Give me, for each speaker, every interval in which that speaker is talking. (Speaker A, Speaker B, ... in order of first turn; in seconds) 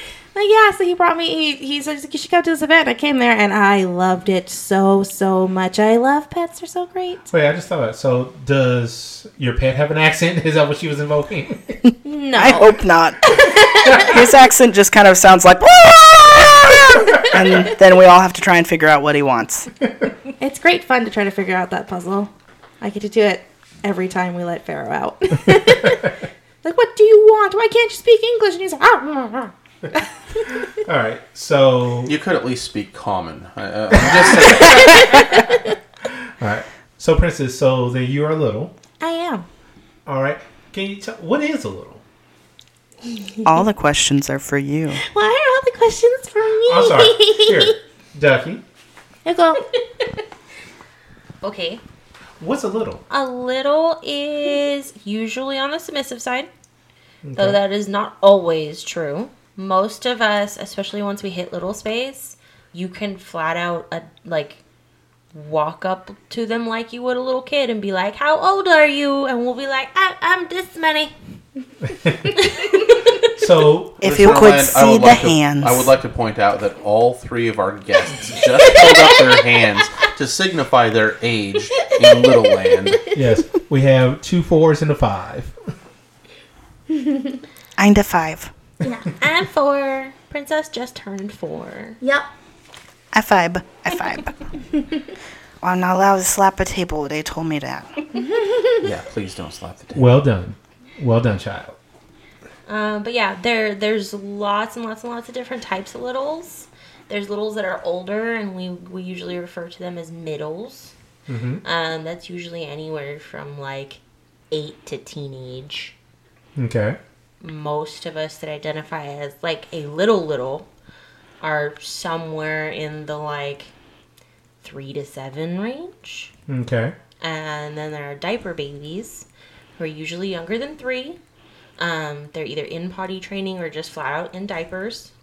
Speaker A: 0.3-7.2, 12.0-14.1, 20.4-22.3, 22.8-29.5, 34.8-35.5, 39.0-39.4, 45.0-47.8, 49.2-49.6, 92.0-92.2, 98.3-98.6
Speaker B: 7.3-11.8, 30.7-32.1, 34.0-35.0, 36.4-38.7, 40.0-42.0, 46.6-48.6, 52.4-53.0, 57.2-57.6, 71.9-72.3, 73.4-74.0, 83.1-85.5, 99.9-101.8, 111.3-111.6, 116.5-117.0, 126.5-126.9
Speaker C: 12.3-19.7, 43.4-45.0, 74.0-75.9, 87.8-88.5, 93.1-94.4, 95.6-97.9
Speaker D: 32.0-35.2, 74.0-83.2, 98.8-100.1
Speaker E: 51.4-51.8, 53.1-56.5, 57.4-64.6, 65.3-71.1, 72.5-72.9, 89.1-92.0, 102.7-110.9, 111.6-114.0, 114.5-115.9, 117.4-120.7, 121.4-123.7, 124.6-126.3, 127.2-129.2, 129.8-131.2, 131.8-135.1